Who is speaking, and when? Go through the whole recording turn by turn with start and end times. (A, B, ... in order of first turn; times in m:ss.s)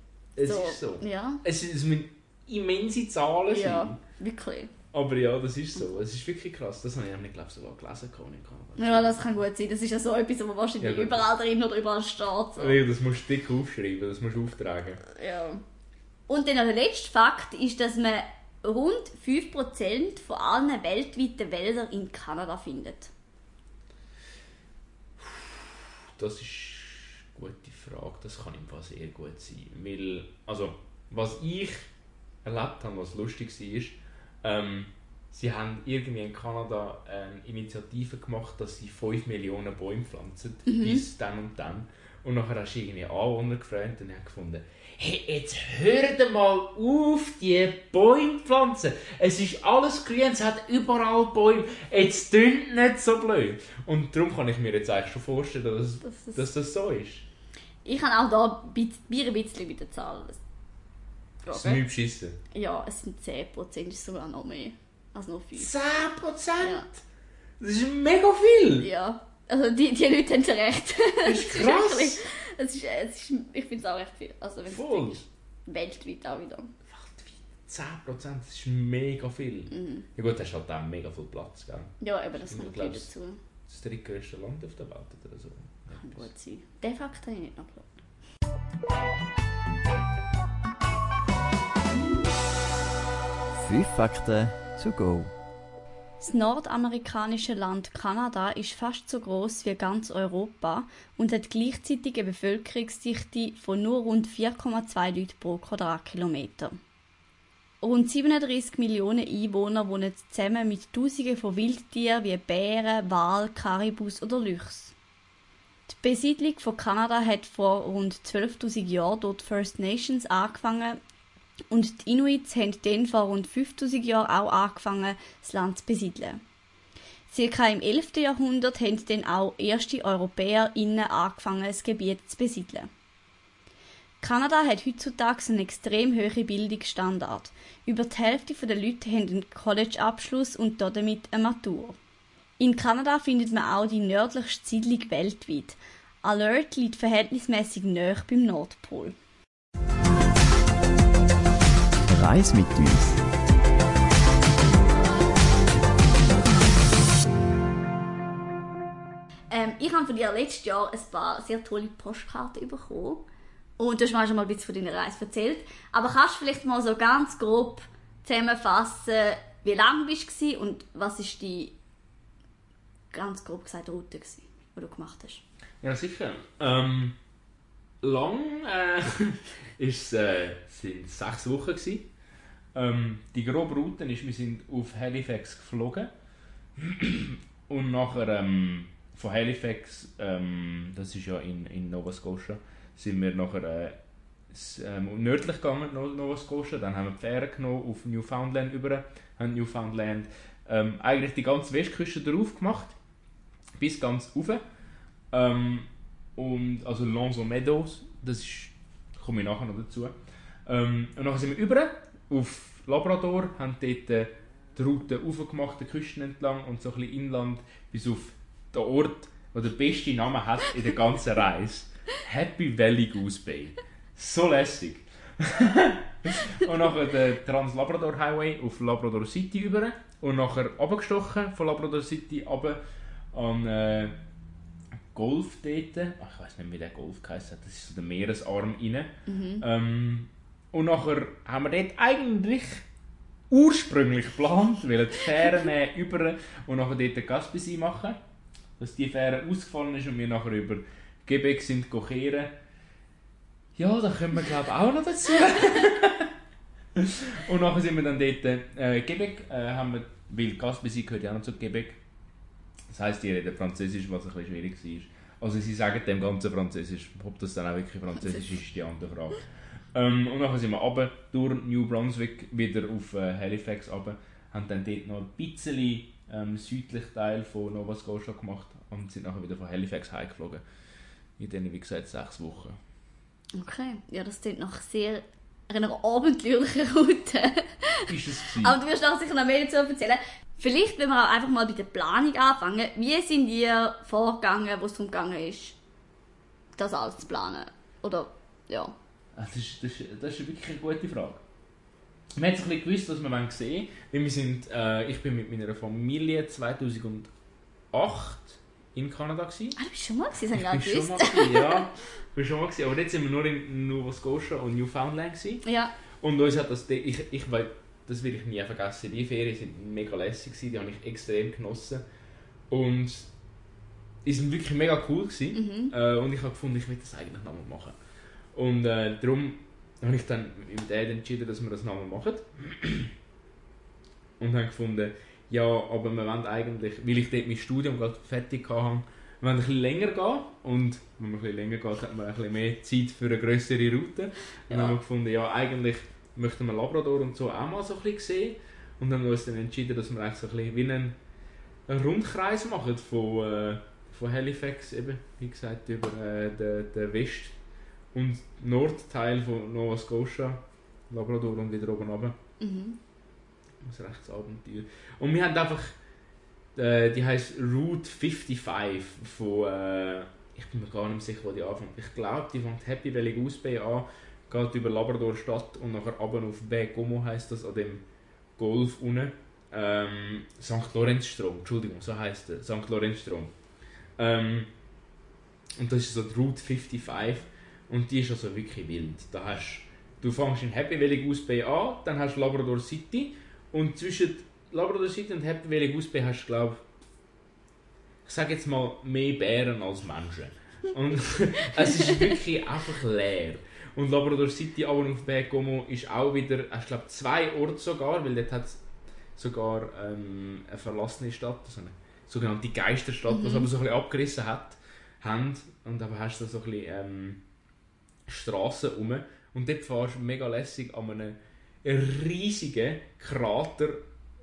0:00.4-0:04.0 A
0:00.4-0:01.4 B
0:03.5-0:04.7 B
0:04.9-0:09.2 A
0:08.8-0:12.8 B
0:10.8-0:11.2 A
0:12.6-0:15.0 A
0:15.1-0:15.6 B
0:16.3-0:23.1 B
0:25.2-0:31.9 A
0:32.4-0:57.2 A
0:40.6-0:41.0 B
0:56.0-0:56.5 B
0:57.8-1:00.4 B
1:01.4-1:01.8 B
1:01.5-1:02.4 A
1:02.5-1:05.7 B
1:05.6-1:07.0 A
1:06.6-1:06.8 B
1:07.6-1:08.9 A
1:08.8-1:16.7 B
1:11.2-1:12.2 A
1:14.7-1:15.2 A
1:16.9-1:23.1 A
1:19.7-1:20.0 B
1:22.0-1:23.4 B
1:23.7-1:26.3 A
1:25.9-1:28.0 B
1:33.5-1:35.3 C
1:36.2-1:46.8 B
1:47.8-1:54.9 B
1:55.9-2:01.0 B
2:01.7-2:06.4 B
2:07.3-2:12.9 B
2:14.2-2:22.0 B
2:22.6-2:29.2 B
2:32.1-2:33.2 C
2:39.5-2:43.2 B
2:43.8-2:51.7 B
2:53.1-2:55.4 B
2:55.8-2:57.1 A
2:58.0-3:02.1 A
3:02.7-3:06.1 A
3:06.8-3:14.0 A
3:14.5-3:23.0 A
3:23.8-3:24.6 A
3:25.3-3:52.8 A
3:53.3-3:54.2 A
3:55.1-4:02.8 A
3:59.3-3:59.6 B
4:03.5-4:08.2 A
4:08.8-4:12.5 A
4:13.8-4:16.3 A
4:16.9-4:22.0 A
4:22.9-4:29.4 A
4:29.9-4:40.6 A
4:41.4-4:42.8 A
4:43.6-4:55.8 B
4:48.1-4:48.8 A
4:56.8-4:58.9 B
4:59.3-5:01.4 A
5:02.3-5:07.3 A
5:07.9-5:09.8 A
5:09.8-5:11.8 B
5:10.5-5:15.6 A
5:15.6-5:15.9 B
5:16.2-5:22.0 A
5:22.7-5:23.3 A
5:24.2-5:28.0 A
5:25.5-5:25.9 B
5:28.5-5:33.1 A
5:34.4-5:51.2 A
5:44.7-5:45.0 B
5:51.9-5:57.5 A
5:58.1-6:02.4 A
6:02.6-6:03.0 B
6:03.8-6:06.0 A
6:06.7-6:18.0 A
6:18.6-6:23.5 A
6:24.2-6:24.7 A
6:25.8-6:36.8 A
6:38.2-6:48.8 A
6:49.4-6:57.4 A
6:53.3-6:53.7 B
6:58.3-7:04.0 A